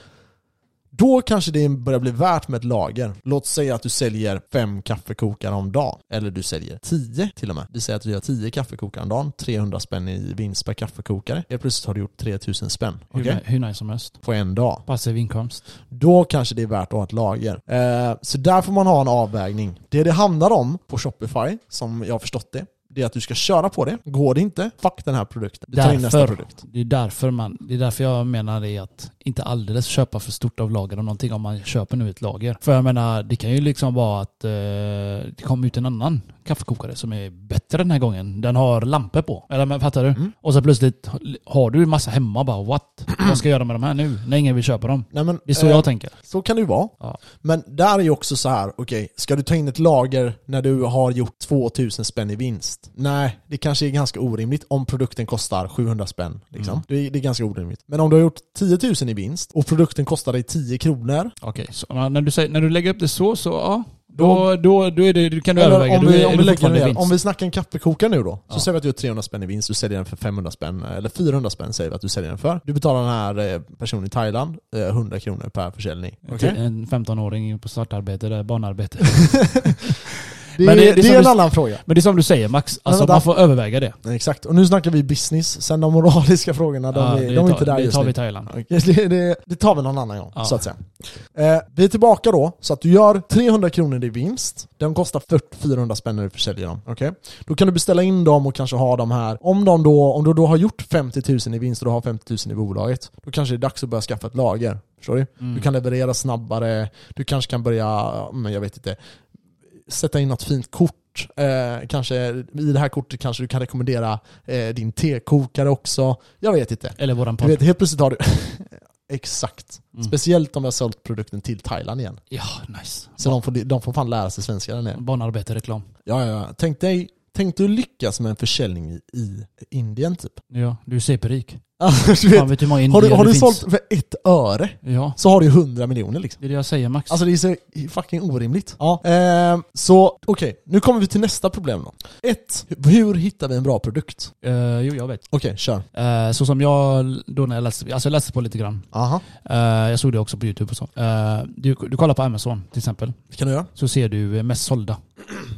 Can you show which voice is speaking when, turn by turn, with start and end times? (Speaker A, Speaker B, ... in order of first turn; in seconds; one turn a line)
Speaker A: 0.9-13.4
Speaker B: 13.1-14.2
Speaker A: 14.2-14.8
Speaker B: 14.9-15.6
Speaker A: 15.9-26.5
Speaker B: 25.7-46.1
Speaker A: 45.1-61.4
Speaker B: 61.4-67.1
Speaker A: 64.2-64.5
Speaker A: 65.6-76.6
Speaker B: 76.3-84.0
Speaker A: 79.1-80.0
Speaker A: 80.5-81.8
Speaker A: 82.9-83.3
Speaker A: 84.0-109.0
Speaker B: 86.9-88.5
Speaker B: 90.4-90.7
Speaker B: 105.4-105.7
Speaker A: 109.9-122.2
Speaker B: 117.0-117.6
Speaker B: 122.3-123.4
Speaker A: 123.2-125.0
Speaker B: 124.9-125.9
Speaker A: 126.1-130.4
Speaker B: 130.5-131.6
Speaker A: 131.8-136.4
Speaker B: 132.3-133.6
Speaker B: 134.8-135.2
Speaker B: 136.4-137.2
Speaker A: 137.1-144.3
Speaker B: 144.4-145.2
Speaker A: 145.3-145.9
Speaker B: 145.9-153.2
Speaker A: 148.9-149.2
Speaker A: 153.3-153.7
Speaker B: 153.8-155.0